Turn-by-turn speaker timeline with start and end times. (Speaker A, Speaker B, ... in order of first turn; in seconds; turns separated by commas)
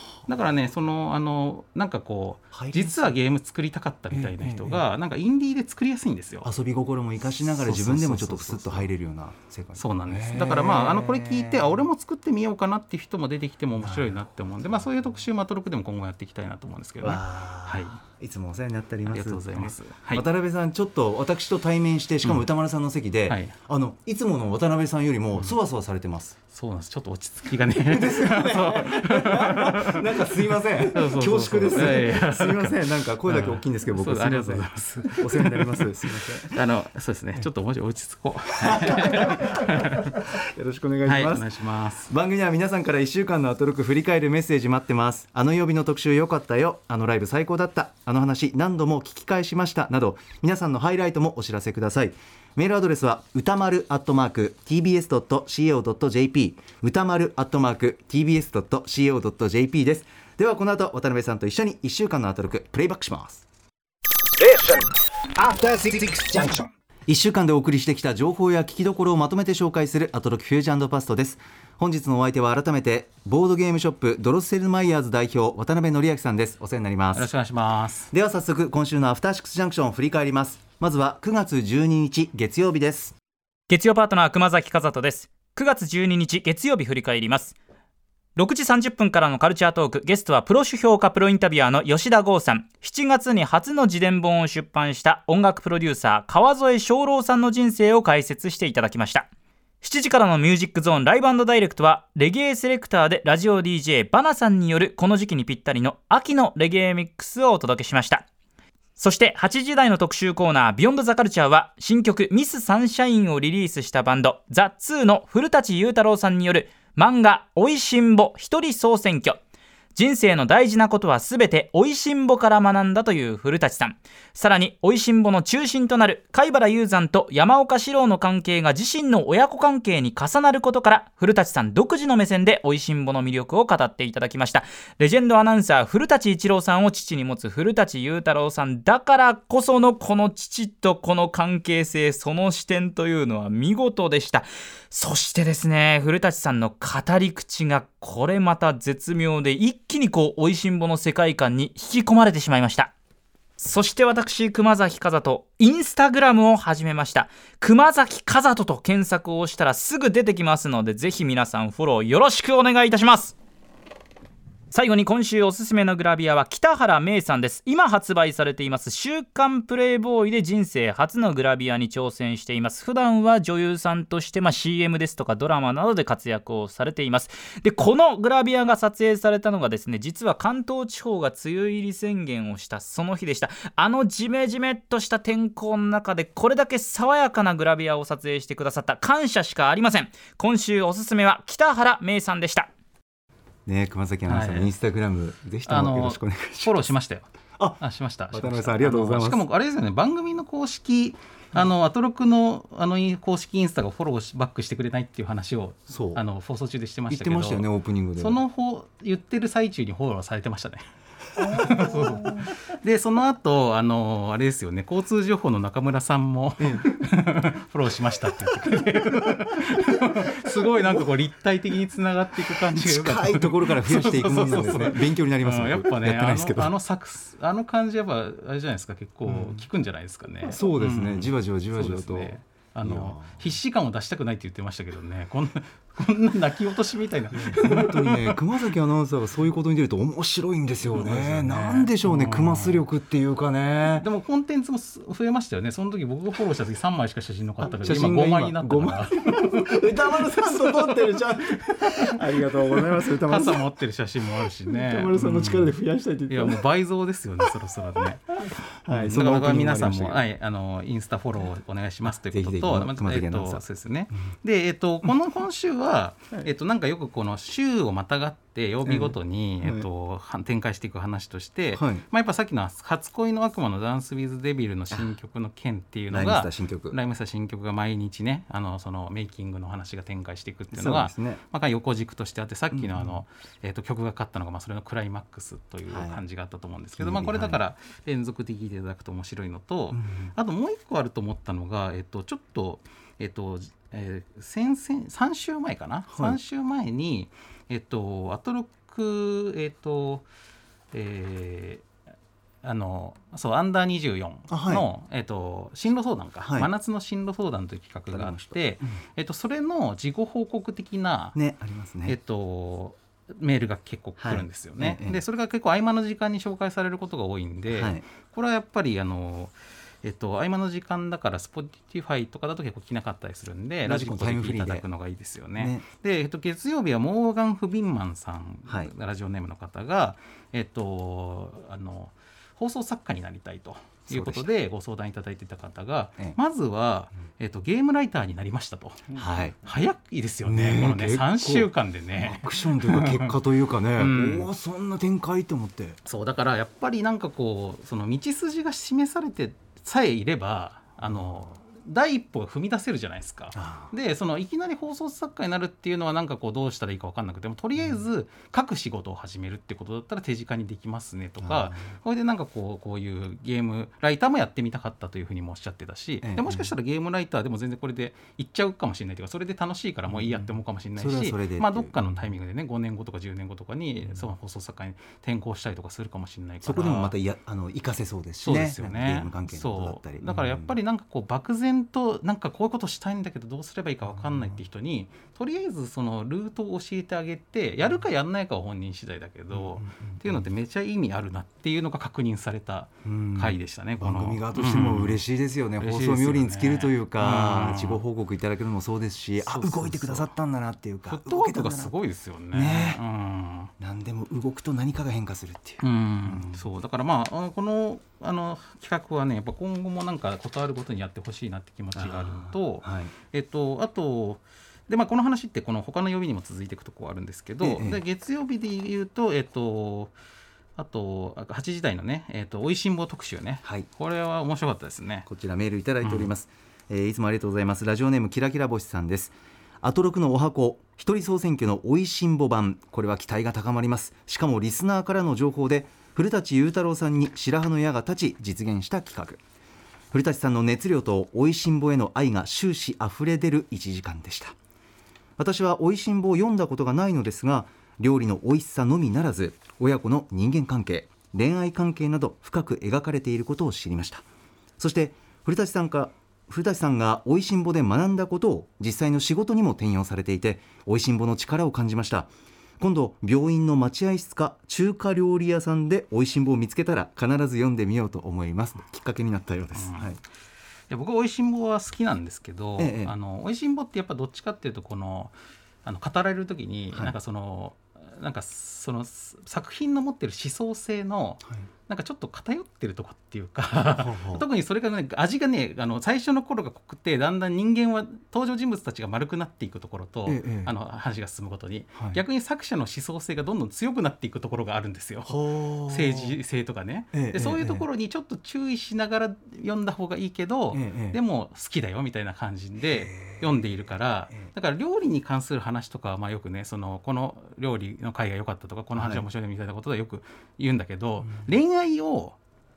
Speaker A: 0.3-6.5, Speaker B: 2.5-3.1, Speaker B: 4.1-4.8, Speaker B: 6.4-11.7, Speaker A: 7.4-8.8, Speaker A: 9.8-18.0, Speaker B: 13.8-14.2, Speaker B: 17.0-26.4, Speaker A: 19.1-20.2, Speaker A: 23.3-23.6, Speaker A: 26.5-40.2, Speaker B: 27.9-36.6, Speaker B: 38.6-41.5, Speaker A: 41.0-42.1, Speaker B: 42.0-63.4, Speaker B: 64.4-77.3, Speaker A: 77.1-78.1, Speaker B: 78.1-83.2, Speaker C: 83.7-87.6, Speaker C: 88.4-99.3, Speaker C: 99.8-108.2, Speaker C: 109.0-119.4, Speaker C: 119.9-152.9, Speaker C: 153.6-163.3, Speaker C: 164.7-192.7, Speaker B: 193.7-196.9, Speaker A: 194.3-194.7, Speaker A: 195.7-197.3, Speaker A: 197.8-210.8, Speaker B: 198.3-199.4, Speaker B: 205.9-206.2, Speaker B: 207.1-208.4, Speaker B: 211.3-212.5, Speaker A: 211.4-238.4, Speaker B: 216.6-217.0, Speaker B: 219.1-221.1, Speaker B: 222.7-226.7, Speaker B: 229.2-229.6, Speaker B: 230.4-233.5, Speaker B: 237.3-244.1, Speaker A: 240.8-242.8, Speaker A: 243.9-252.1, Speaker B: 247.6-253.7, Speaker A: 253.2-255.8, Speaker B: 254.7-256.6, Speaker A: 256.3-258.3, Speaker B: 258.4-260.2, Speaker A: 258.9-300.3, Speaker B: 262.1-263.6, Speaker B: 268.8-269.9, Speaker B: 271.8-272.0, Speaker B: 276.1-277.0, Speaker B: 280.7-281.4, Speaker B: 282.7-283.2, Speaker B: 285.9-286.2, Speaker B: 287.0-287.6, Speaker B: 289.9-290.3, Speaker B: 296.1-296.4, Speaker A: 300.9-301.8, Speaker A: 302.6-311.4, Speaker B: 304.5-304.9, Speaker B: 306.4-306.7, Speaker B: 308.1-309.0, Speaker B: 311.3-312.2, Speaker A: 312.1-343.3, Speaker B: 314.2-315.2, Speaker B: 317.7-318.0, Speaker B: 323.8-324.8, Speaker B: 325.6-325.8, Speaker B: 334.1-334.5, Speaker B: 339.1-339.6, Speaker B: 340.4-346.0, Speaker A: 343.9-344.5, Speaker A: 346.1-377.1, Speaker B: 351.0-351.4, Speaker B: 353.5-353.9, Speaker B: 357.8-358.0, Speaker B: 361.4-361.9, Speaker B: 366.2-366.7, Speaker B: 370.1-372.3, Speaker B: 374.0-374.3, Speaker B: 376.6-380.8, Speaker A: 378.4-395.2, Speaker B: 384.1-384.6, Speaker B: 389.5-390.5, Speaker B: 393.0-401.9, Speaker A: 395.8-398.0, Speaker A: 399.4-400.3, Speaker A: 401.1-403.7, Speaker B: 402.5-403.0, Speaker B: 403.8-406.7, Speaker A: 405.8-420.1, Speaker B: 411.9-413.1, Speaker B: 417.6-418.0, Speaker A: 420.8-425.3, Speaker B: 425.3-439.4, Speaker A: 426.0-426.3, Speaker B: 440.1-444.6, Speaker B: 445.4-454.3, Speaker B: 454.8-470.2, Speaker A: 469.7-470.2, Speaker A: 470.9-512.4, Speaker B: 472.8-473.1, Speaker B: 483.9-484.4, Speaker B: 490.3-490.7, Speaker B: 491.9-492.2, Speaker B: 495.3-496.4, Speaker B: 497.1-497.8, Speaker B: 500.7-501.2, Speaker B: 502.8-504.4, Speaker B: 508.9-509.2, Speaker B: 511.3-511.5